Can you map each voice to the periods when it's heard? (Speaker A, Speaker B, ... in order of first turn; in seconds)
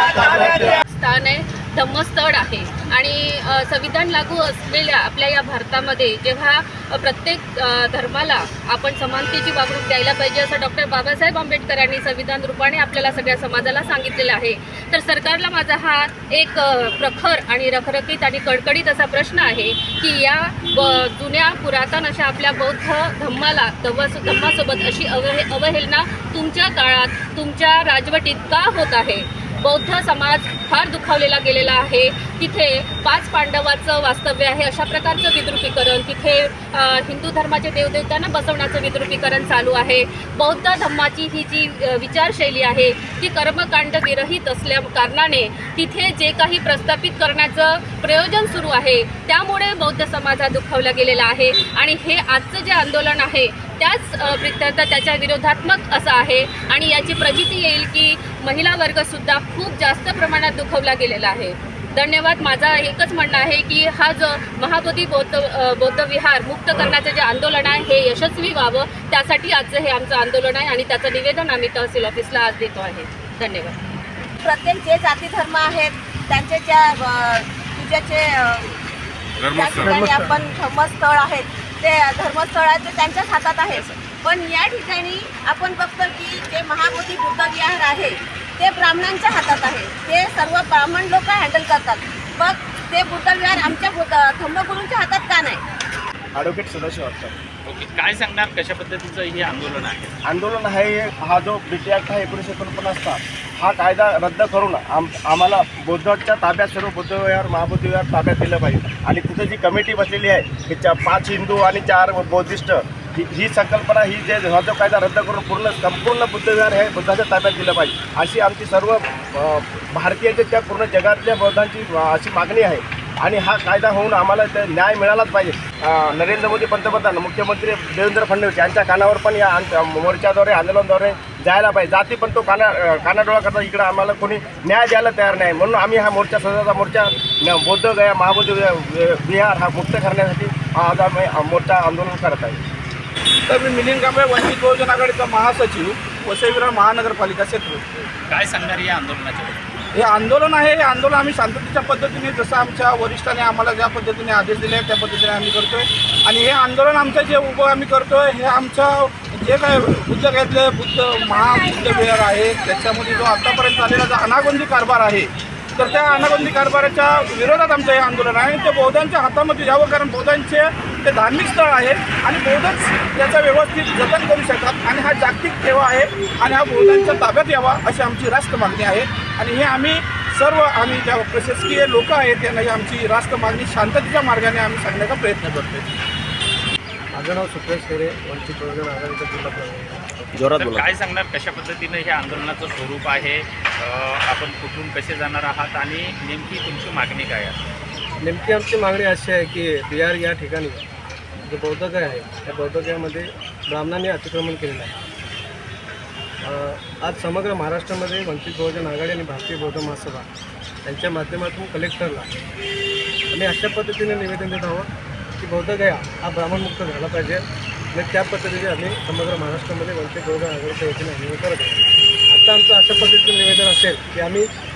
Speaker A: 0.7-73.8
Speaker B: 74.4-78.8, 79.4-95.6
Speaker C: 96.3-97.3, 100.2-142.6, 190.4-190.8
Speaker D: 97.6-100.1, 148.3-149.6, 190.4-197.6
Speaker E: 143.5-147.8, 149.9-185.9
Speaker F: 187.1-190.1, 198.2-200.8, 201.4-204.9, 206.4-210.3, 210.8-212.3, 213.3-224.5